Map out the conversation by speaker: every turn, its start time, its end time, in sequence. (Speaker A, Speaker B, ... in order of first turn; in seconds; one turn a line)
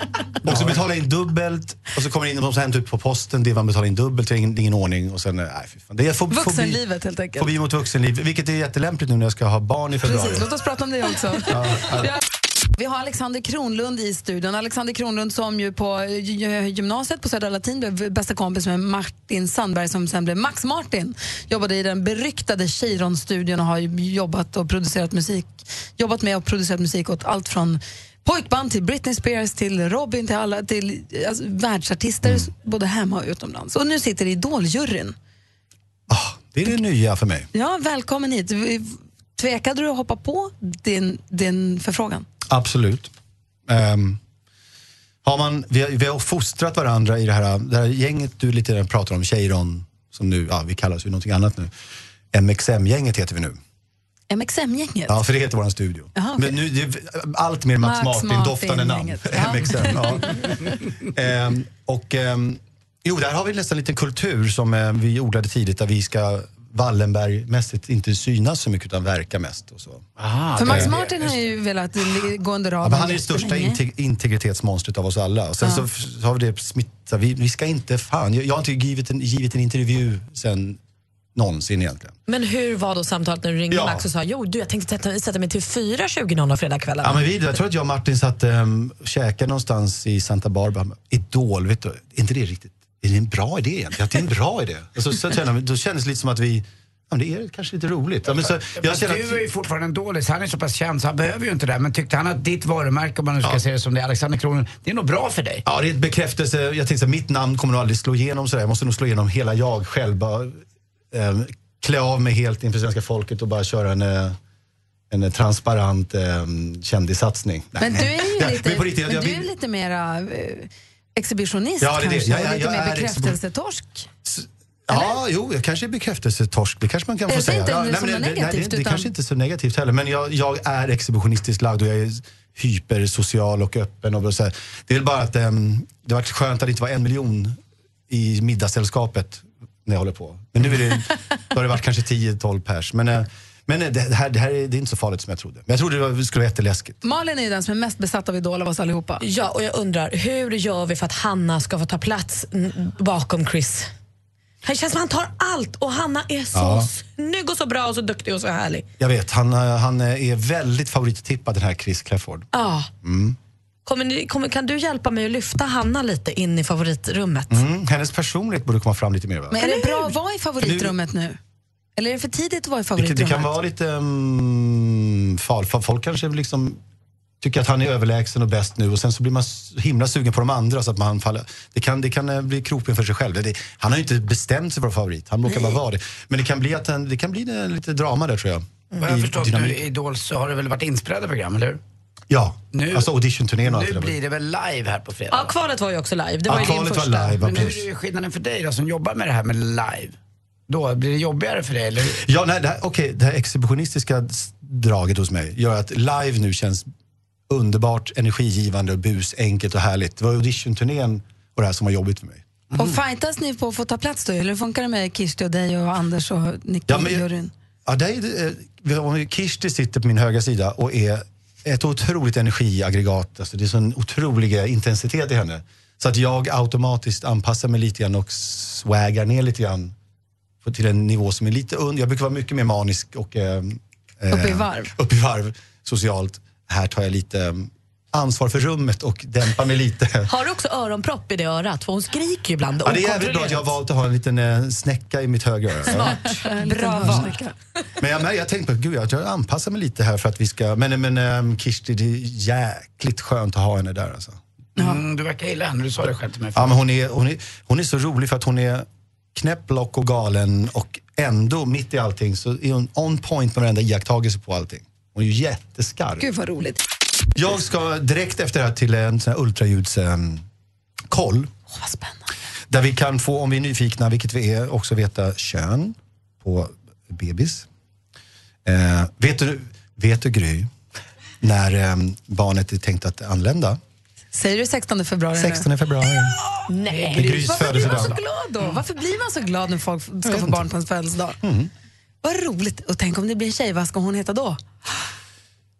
Speaker A: 0.4-6.8
Speaker B: 6.3-7.5
Speaker A: 7.4-10.5
Speaker B: 10.0-12.2
Speaker A: 11.5-12.1
Speaker B: 12.8-35.1
Speaker A: 36.1-37.5
Speaker B: 37.5-42.2
Speaker A: 42.5-43.1
Speaker A: 43.7-44.2
Speaker A: 45.2-51.7
Speaker A: 52.3-53.6
Speaker B: 54.3-55.2
Speaker A: 55.1-60.5
Speaker B: 56.1-56.6
Speaker B: 57.8-60.2
Speaker A: 61.1-70.1
Speaker C: 70.2-71.4
Speaker B: 70.6-73.8
Speaker A: 70.6-70.9
Speaker A: 72.8-80.8
Speaker A: 81.3-82.2
Speaker D: 82.3-87.3
Speaker A: 83.7-84.1
Speaker A: 87.0-99.4
Speaker C: 98.2-105.6
Speaker A: 105.7-110.6
Speaker A: 111.1-114.4
Speaker A: 115.1-119.5
Speaker B: 117.8-124.1
Speaker A: 121.8-123.4
Speaker A: 124.2-137.6
Speaker B: 124.9-125.2
Speaker B: 127.3-129.1
Speaker A: 138.1-147.0
Speaker B: 147.0-149.2
Speaker D: 149.2-153.9
Speaker D: 154.6-158.8
Speaker A: 156.5-156.9
Speaker A: 159.0-162.5
Speaker D: 162.5-162.9
Speaker A: 163.0-163.3
Speaker D: 163.8-167.6
Speaker A: 167.5-169.6
Speaker B: 169.5-171.4
Speaker D: 169.6-170.1
Speaker A: 170.6-170.9
Speaker B: 172.0-173.5
Speaker A: 173.0-176.8
Speaker A: 177.4-189.8
Speaker C: 189.0-191.8
Speaker A: 192.3-194.1
Speaker C: 192.7-193.1
Speaker C: 193.6-195.5
Speaker D: 195.3-197.6
Speaker A: 196.5-197.8
Speaker C: 197.4-200.2
Speaker C: 200.7-202.2
Speaker A: 202.1-206.8
Speaker A: 207.5-212.4
Speaker B: 212.8-217.5
Speaker A: 216.9-217.2
Speaker A: 217.8-229.9
Speaker A: 230.6-240.3
Speaker B: 234.3-234.9
Speaker D: 240.3-243.8
Speaker A: 242.8-246.2
Speaker D: 245.9-247.3
Speaker B: 246.4-247.5
Speaker A: 248.0-254.4
Speaker C: 254.8-256.8
Speaker A: 256.6-266.3
Speaker B: 266.2-266.8
Speaker A: 267.3-270.4
Speaker A: 271.1-271.5
Speaker B: 271.7-272.2
Speaker A: 272.7-277.6
Speaker A: 278.6-280.7
Speaker A: 281.4-283.8
Speaker B: 284.3-285.7
Speaker A: 285.3-286.4
Speaker D: 286.7-287.4
Speaker C: 286.9-288.2
Speaker A: 287.1-288.1
Speaker B: 287.2-291.4
Speaker A: 290.3-290.6
Speaker A: 291.4-291.7
Speaker B: 292.2-294.6